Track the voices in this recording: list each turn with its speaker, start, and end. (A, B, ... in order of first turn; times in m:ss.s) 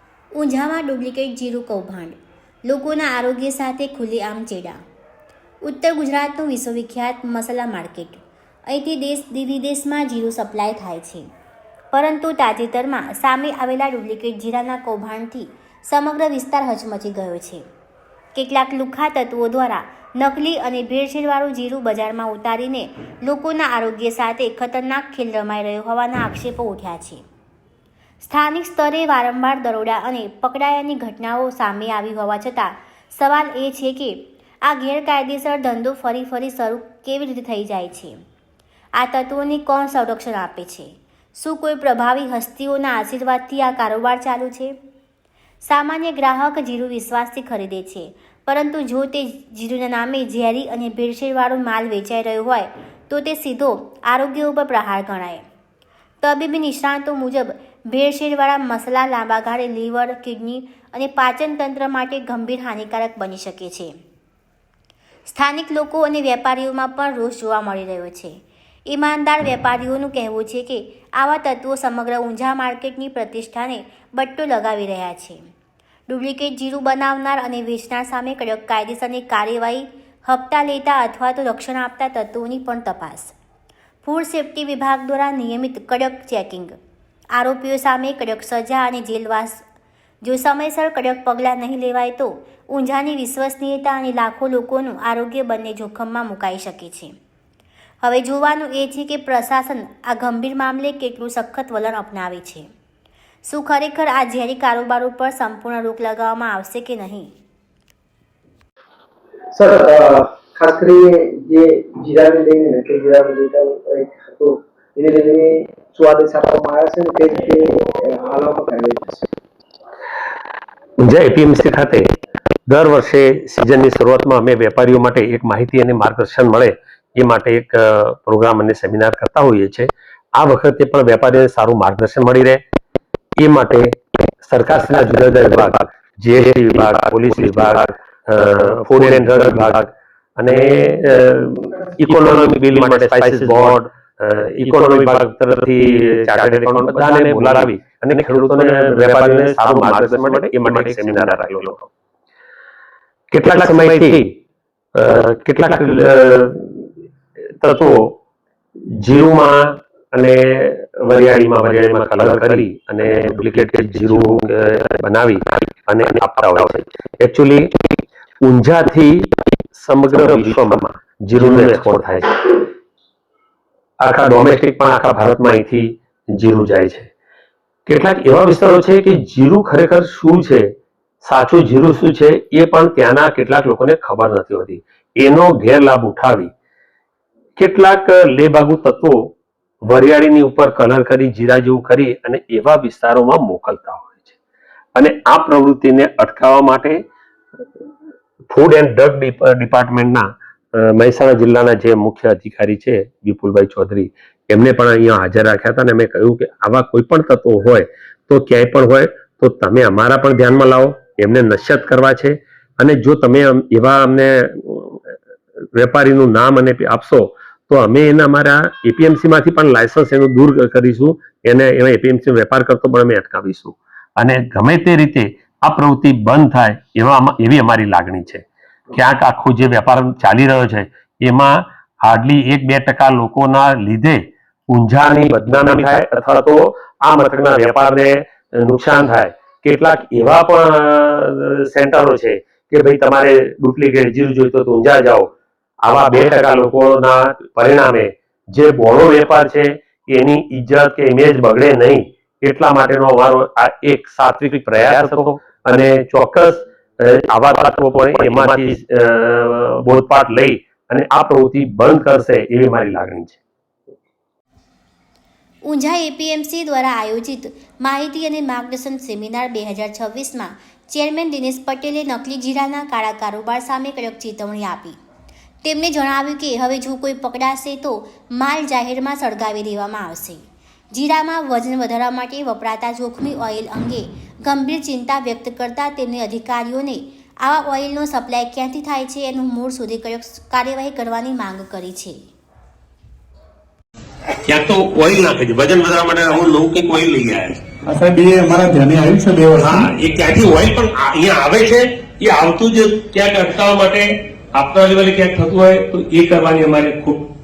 0:00.3-0:04.8 A
0:05.6-0:11.2 A
0:11.9-0:17.6 A
0:18.3-0:27.2 A
0:28.2-0:38.1 A
0:39.0-0:44.7 A
0:45.6-0:55.4 A
0:56.2-1:03.9 A
1:05.3-1:08.3 A
1:08.9-1:15.4 A
1:16.1-1:23.3 A
1:24.0-1:26.7 A
1:27.4-1:29.6 A
1:30.2-1:37.1 A
1:38.0-1:42.6 A
1:43.5-1:47.3 A
1:49.5-1:59.3 B
2:01.0-2:02.0 C
2:02.7-2:12.6 C
2:13.4-2:19.9 C
2:20.4-2:31.8 C
2:22.1-2:23.8 D
2:24.7-2:25.2 D
2:26.7-2:27.7 D
2:29.8-2:31.3 D
2:33.4-2:34.2 C
2:33.5-2:34.2 D
2:35.0-2:36.9 C
2:37.6-2:38.0 C
2:39.0-2:47.7 C
2:48.4-2:52.6 C
2:54.0-2:57.1 C
2:57.9-3:00.7 C
3:01.2-3:06.5 C
3:07.6-3:09.3 C
3:09.9-3:14.4 C
3:15.0-3:17.0 C
3:18.5-3:35.0 C
3:35.8-4:05.3 C
4:05.8-4:23.4 C
4:25.6-4:35.0 A
4:35.6-4:52.2 A
4:54.5-4:55.2 C
4:55.8-4:56.5 D
4:56.4-4:57.5 C
4:57.8-4:59.9 E
4:59.9-5:04.0 D
5:03.3-5:03.8 C
5:04.6-5:07.2 D
5:05.6-5:06.6 C